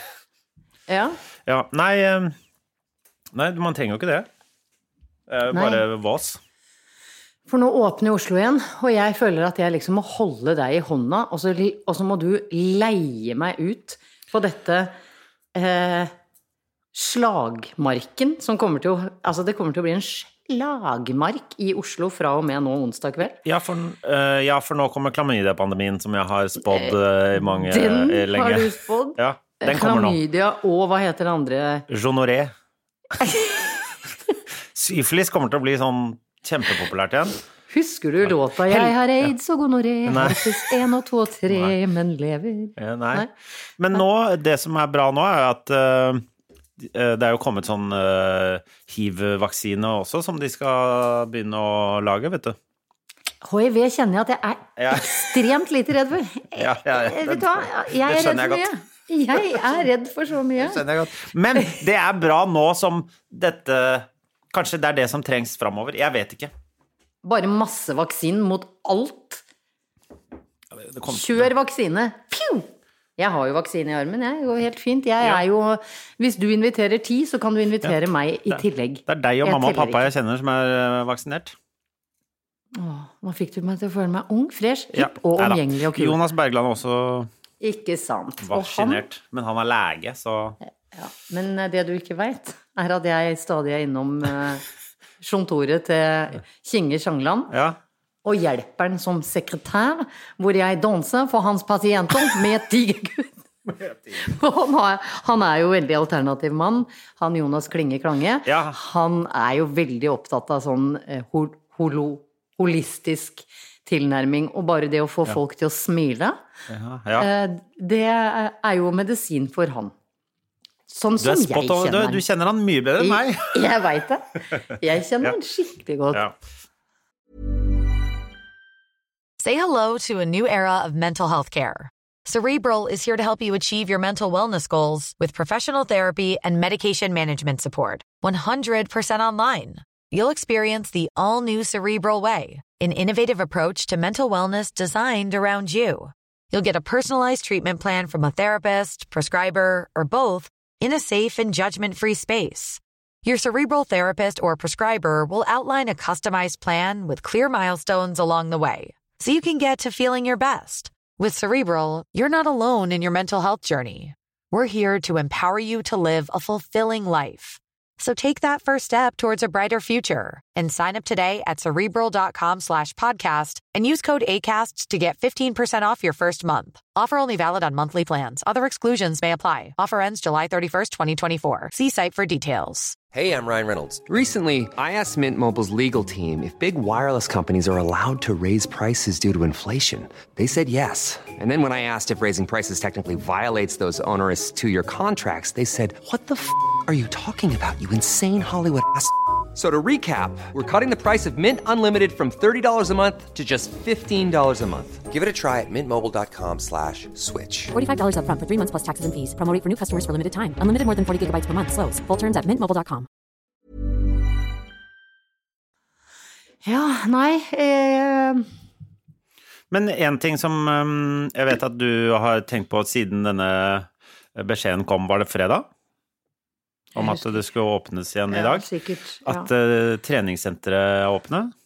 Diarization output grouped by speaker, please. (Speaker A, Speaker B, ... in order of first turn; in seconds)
Speaker A: 0.9-1.2, 5.5-5.8, 7.5-14.9, 15.5-16.1, 16.9-23.4, 26.7-31.8, 33.2-33.6, 37.7-43.3, 53.4-60.8, 67.2-69.4, 71.1-80.1, 82.7-86.2, 87.6-89.0, 90.9-94.6, 95.2-97.5, 98.2-103.3, 104.2-116.4, 117.2-119.9, 120.9-122.2, 123.0-126.2, 216.6-218.4, 226.9-227.4, 228.3-229.5
Speaker B: 1.4-2.3, 3.3-4.3, 5.3-6.4, 23.4-30.2, 31.9-32.5, 34.7-37.4, 38.2-39.0, 40.0-40.7, 41.5-41.7, 42.8-46.2, 46.8-52.5, 54.8-55.2, 56.5-58.7, 60.6-66.5, 70.7-71.5, 78.5-81.5, 84.9-87.3, 88.4-90.6, 97.5-97.8, 103.8-104.1, 108.4-108.8, 116.7-117.3, 121.2-123.6, 219.7-225.7, 226.9-228.7, 229.2-231.5
Speaker C: 129.4-183.0
Speaker D: 183.1-207.7
Speaker E: 207.7-213.1